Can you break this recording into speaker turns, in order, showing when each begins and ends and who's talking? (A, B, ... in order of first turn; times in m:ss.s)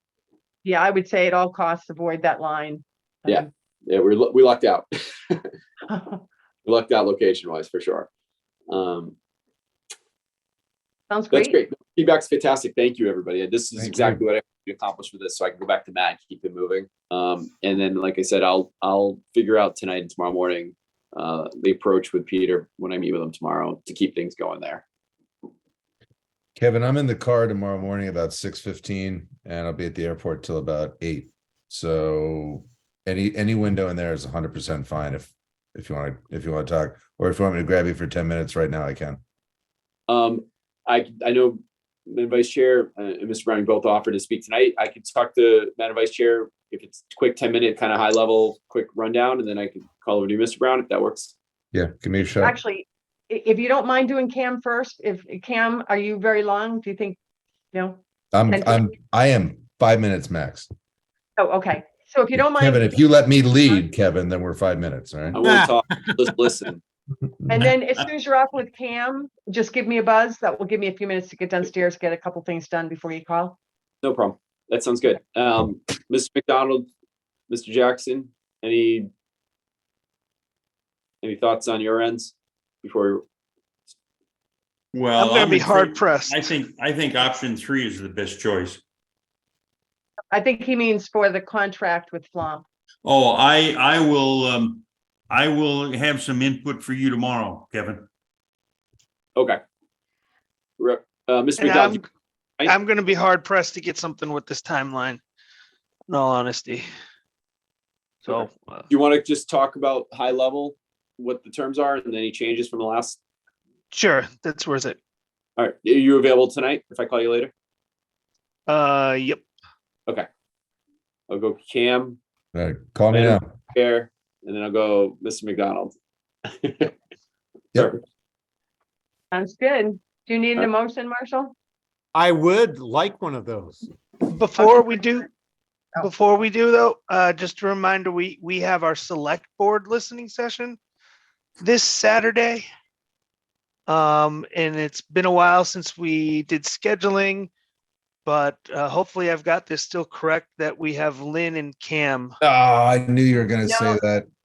0:00.6-0:03.5 A
0:03.3-0:05.5 B
0:05.9-0:06.2 A
0:06.6-0:08.1 B
0:08.7-0:09.2 B
0:11.1-0:11.6 A
0:11.3-0:24.8 B
0:13.8-0:14.2 C
0:26.6-0:39.2 C
0:40.1-0:51.4 B
0:51.7-0:52.6 C
0:52.4-0:57.2 A
0:57.7-0:58.9 A
0:58.3-1:00.7 C
1:01.4-1:03.1 A
1:02.4-1:05.4 C
1:05.3-1:06.8 B
1:05.4-1:06.4 D
1:07.5-1:13.6 A
1:14.0-1:16.9 B
1:17.5-1:19.1 B
1:21.2-1:23.2 B
1:24.9-1:28.8 E
1:25.2-1:26.6 F
1:30.3-1:32.6 A
1:33.0-1:38.1 E
1:40.8-1:42.0 B
1:41.6-1:42.0 F
1:42.6-1:45.2 F
1:46.1-1:46.9 F
1:48.2-1:48.8 F
1:48.3-1:53.2 B
1:53.9-1:55.0 F
1:55.6-1:57.5 B
1:58.7-1:59.4 F
2:01.3-2:02.2 B
2:02.5-2:03.4 C
2:03.1-2:06.0 B
2:06.5-2:06.9 B
2:07.8-2:08.0 B
2:09.3-2:11.5 A
2:12.1-2:13.9 D
2:14.3-2:15.3 F
2:14.6-2:15.3 A
2:16.0-2:20.8 F
2:21.6-2:22.7 F
2:23.9-2:27.5 F
2:28.2-2:32.4 F
2:32.4-2:34.3 C
2:33.7-2:34.0 A